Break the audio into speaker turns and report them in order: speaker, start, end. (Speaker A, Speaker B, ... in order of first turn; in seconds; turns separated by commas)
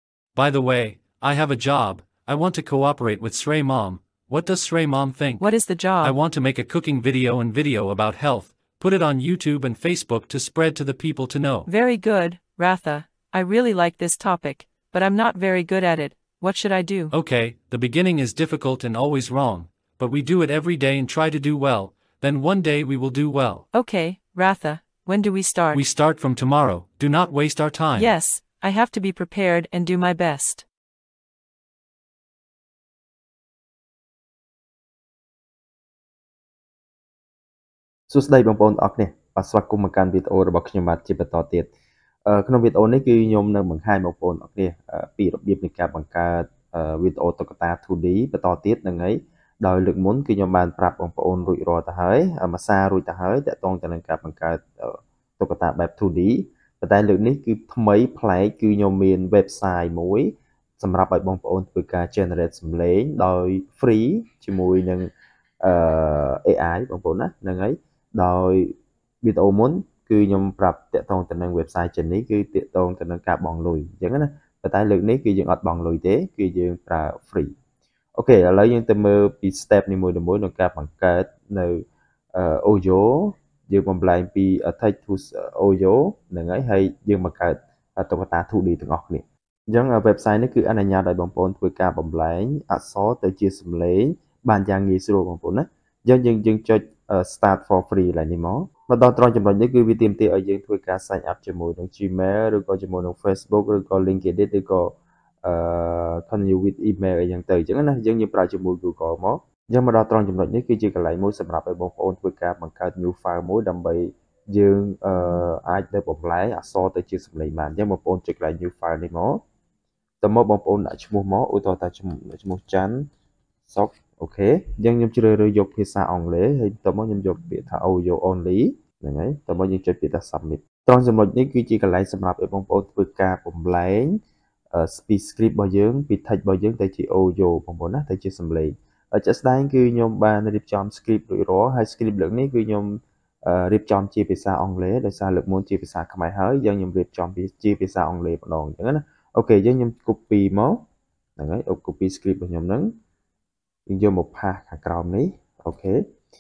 Speaker A: 0.3-5.5, Speaker B: 5.4-6.2, Speaker A: 6.0-11.7, Speaker B: 11.7-17.1, Speaker A: 17.1-23.6, Speaker B: 23.7-25.8, Speaker A: 25.7-28.1, Speaker B: 27.9-30.6, Speaker C: 38.1-41.7, Speaker C: 42.2-65.1, Speaker C: 65.6-77.5, Speaker C: 78.2-81.8, Speaker C: 82.3-119.4, Speaker C: 120.2-123.1, Speaker C: 123.7-134.2, Speaker C: 134.7-150.8, Speaker C: 151.4-152.9, Speaker C: 153.9-156.0